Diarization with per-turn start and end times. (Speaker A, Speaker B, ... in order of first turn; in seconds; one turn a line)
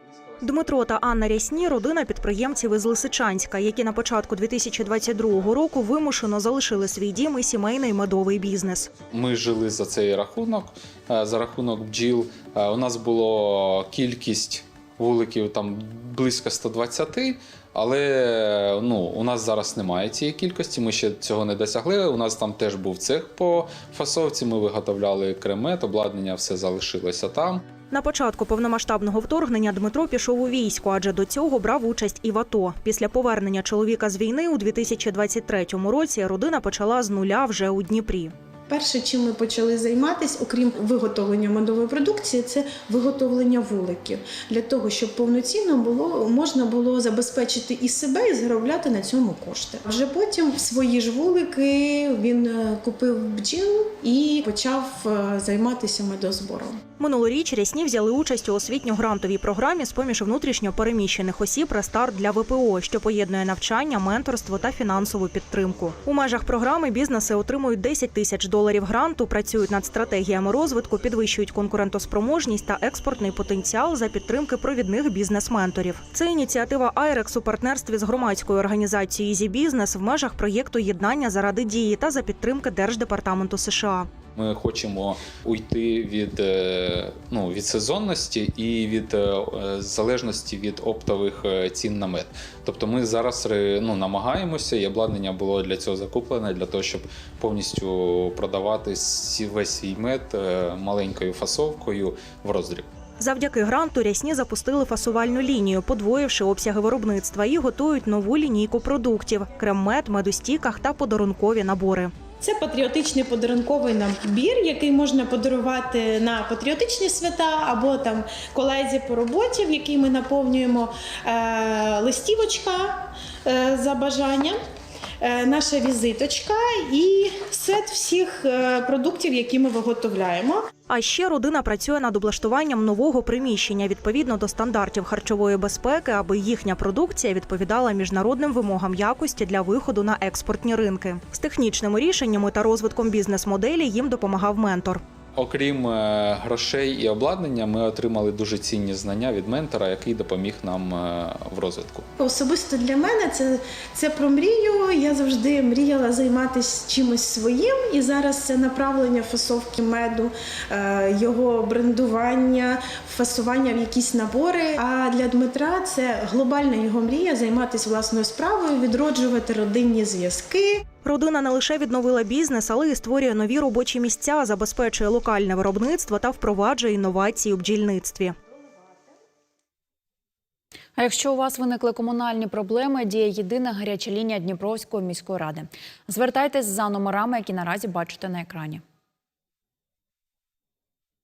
Speaker A: 0.4-8.9
Speaker B: 9.0-27.7
Speaker A: 27.9-38.3
Speaker C: 38.7-56.9
Speaker A: 57.0-84.1
Speaker B: 84.3-102.9
Speaker A: 103.2-112.1
Speaker C: 112.4-124.6
Speaker C: 125.2-130.7
Speaker A: 130.9-145.0
Speaker B: 145.3-152.1
Speaker C: 152.2-170.9
Speaker A: 171.0-178.3
Speaker D: 181.0-188.8